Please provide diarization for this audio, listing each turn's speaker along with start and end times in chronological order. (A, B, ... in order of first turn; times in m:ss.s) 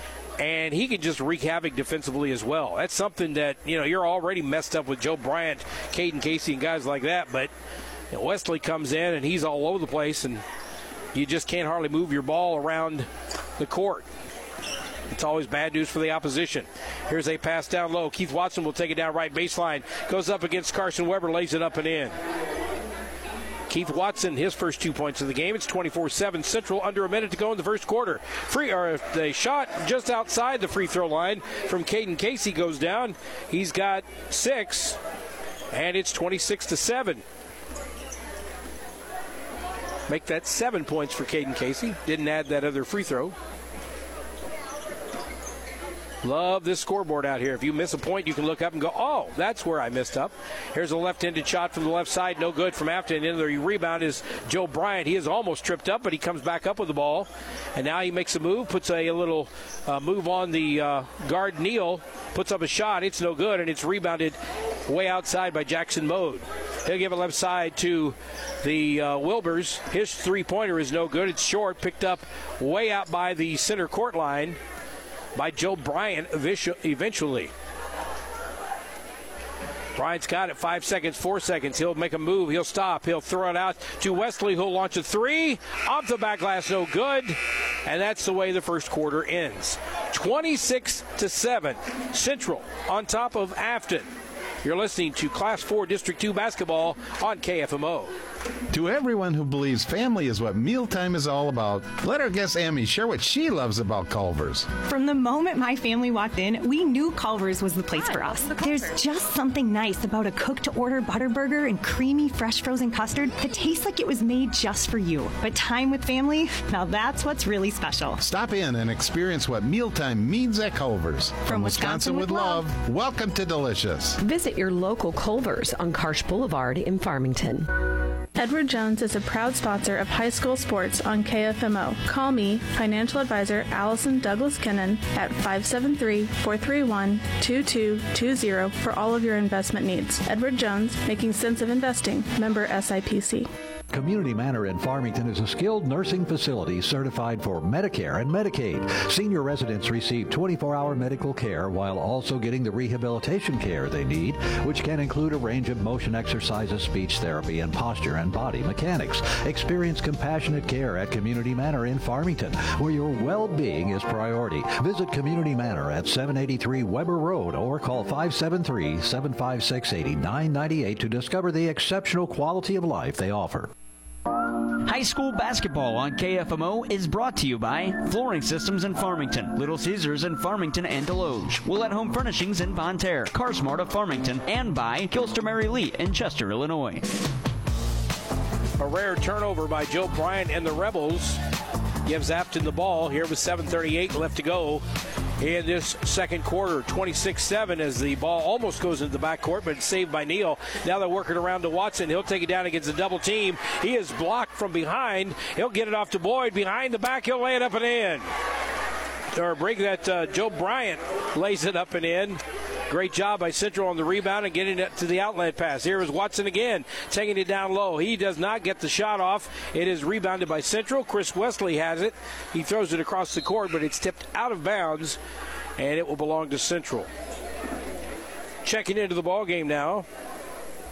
0:00.4-0:07.5 A
0:08.1-0:10.4 A
0:11.1-0:14.0 A
0:15.1-0:22.2 A
0:23.7-0:35.0 A
0:35.7-0:37.2 A
0:40.1-0:43.3 A
0:46.2-1:04.4 A
1:04.9-1:14.6 A
1:15.3-1:17.5 A
1:20.0-1:34.1 A
1:34.6-1:38.1 A
1:38.7-1:44.7 B
1:44.8-1:58.2 C
1:58.2-2:04.2 B
2:01.4-2:02.7 C
2:04.4-2:07.7 D
2:08.4-2:23.5 E
2:23.9-2:53.7 F
2:54.8-3:07.0 G
3:08.8-3:11.4 A
3:12.0-3:14.8 A
3:15.4-3:28.2 A
3:29.3-3:45.2 A
3:45.8-3:47.1 A
3:48.6-3:50.0 A